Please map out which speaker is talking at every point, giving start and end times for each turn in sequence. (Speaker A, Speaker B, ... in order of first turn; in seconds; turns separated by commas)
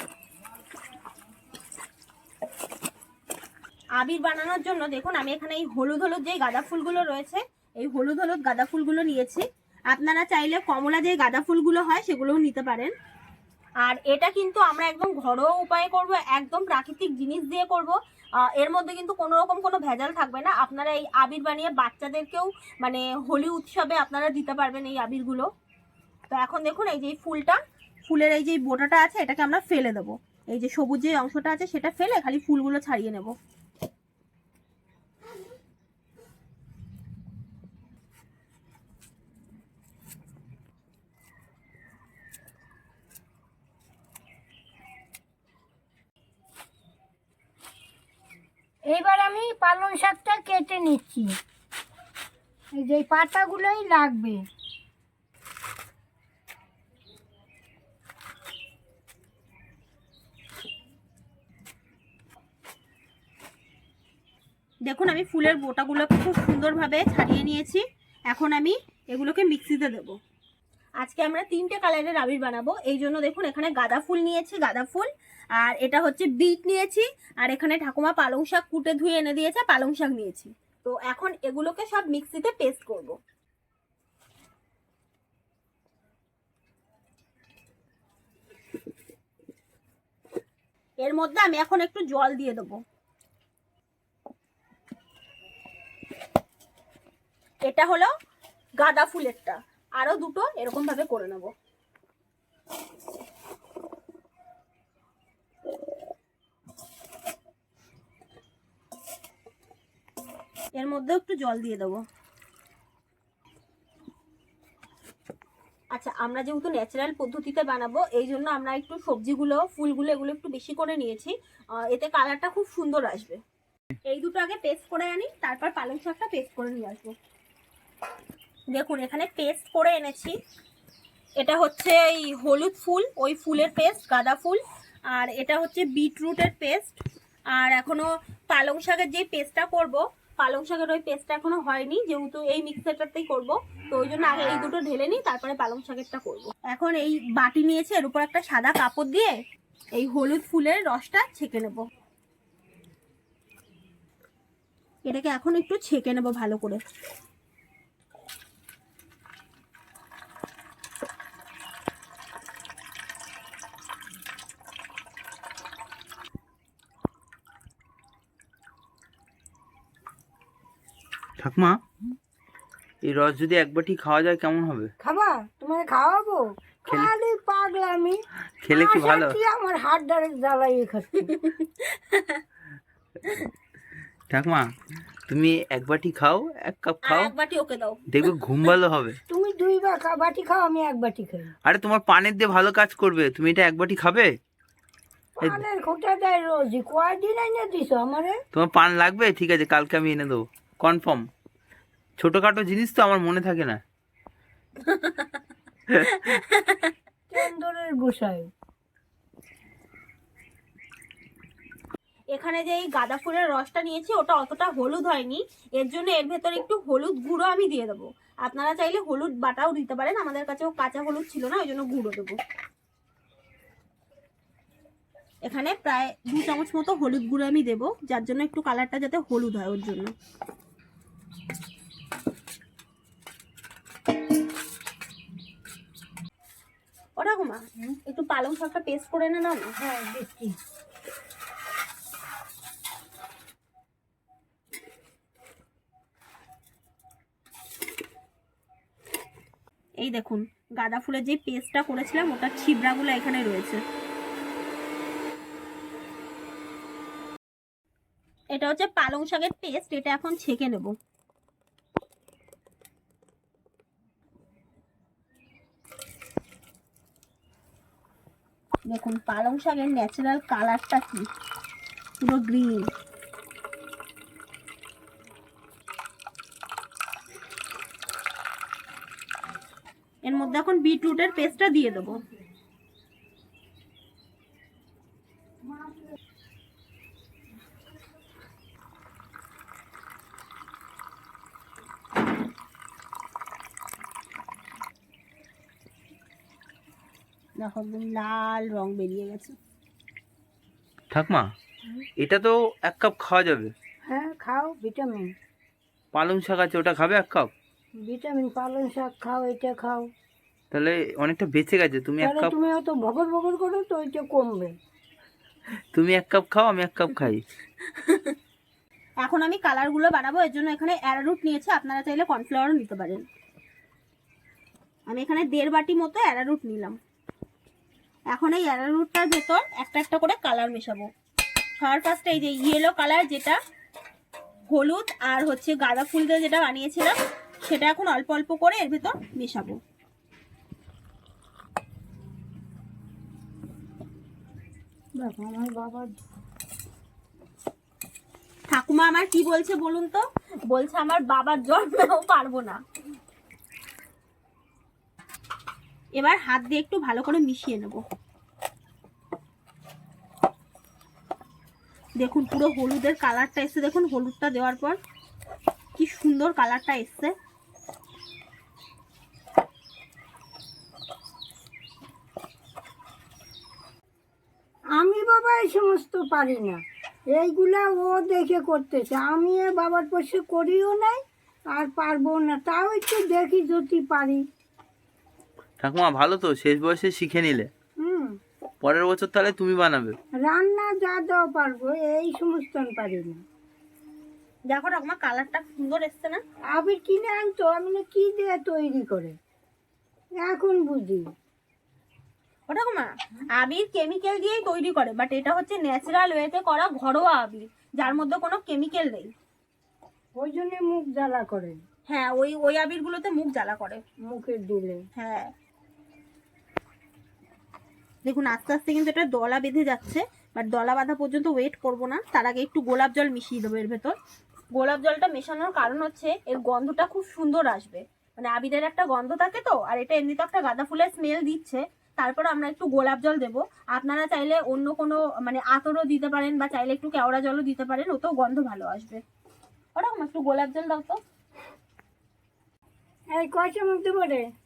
Speaker A: 4.0-12.9, Speaker A: 13.8-25.5, Speaker A: 26.3-33.3, Speaker B: 48.9-51.3, Speaker B: 52.8-54.4, Speaker A: 64.9-70.2, Speaker A: 71.0-83.2, Speaker A: 91.0-92.8, Speaker A: 97.7-98.1, Speaker A: 98.8-101.5, Speaker A: 110.8-112.0, Speaker A: 115.9-123.4, Speaker A: 124.0-127.1, Speaker A: 128.7-130.3, Speaker A: 131.4-137.0, Speaker A: 137.5-149.4, Speaker A: 149.9-151.8, Speaker A: 155.1-156.8, Speaker C: 171.4-171.8, Speaker C: 173.0-174.9, Speaker B: 175.0-178.2, Speaker C: 178.6-179.4, Speaker B: 178.7-181.3, Speaker A: 181.3-182.4, Speaker C: 184.3-184.7, Speaker C: 185.3-187.3, Speaker A: 187.0-188.0, Speaker C: 188.1-189.2, Speaker B: 189.3-191.5, Speaker C: 191.7-194.3, Speaker B: 195.4-198.4, Speaker C: 198.5-201.3, Speaker C: 202.2-203.8, Speaker A: 204.8-205.3, Speaker A: 206.0-206.9, Speaker B: 207.3-208.5, Speaker A: 212.3-222.4, Speaker A: 225.4-230.1, Speaker A: 237.2-239.7, Speaker B: 239.8-240.5, Speaker A: 250.0-253.8, Speaker A: 258.5-260.9, Speaker A: 268.9-271.2, Speaker A: 272.2-272.9, Speaker A: 280.2-282.2, Speaker A: 297.6-299.5, Speaker C: 301.1-301.5, Speaker C: 302.2-303.7, Speaker B: 304.1-305.3, Speaker C: 306.1-307.5, Speaker B: 308.0-310.1, Speaker C: 310.7-312.5, Speaker B: 312.2-314.7, Speaker C: 315.9-317.4, Speaker A: 317.8-318.4, Speaker A: 319.2-323.2, Speaker A: 325.1-327.0, Speaker A: 328.3-331.1, Speaker A: 331.8-333.6, Speaker A: 334.7-339.8, Speaker B: 345.2-346.1, Speaker A: 348.7-352.8, Speaker A: 356.1-358.0, Speaker A: 362.2-365.0, Speaker A: 365.9-367.3, Speaker B: 375.0-376.8, Speaker B: 377.3-381.2, Speaker B: 381.7-384.4, Speaker C: 385.8-387.7, Speaker B: 388.0-388.4, Speaker C: 388.8-390.1, Speaker B: 390.5-393.4, Speaker A: 394.7-396.4, Speaker B: 396.7-399.3, Speaker B: 400.4-401.2, Speaker A: 402.7-409.3, Speaker B: 410.4-411.8, Speaker A: 412.1-414.0, Speaker B: 414.3-415.0, Speaker A: 415.1-415.5, Speaker A: 418.2-424.1, Speaker A: 424.7-439.2, Speaker A: 439.9-441.2, Speaker B: 443.3-444.4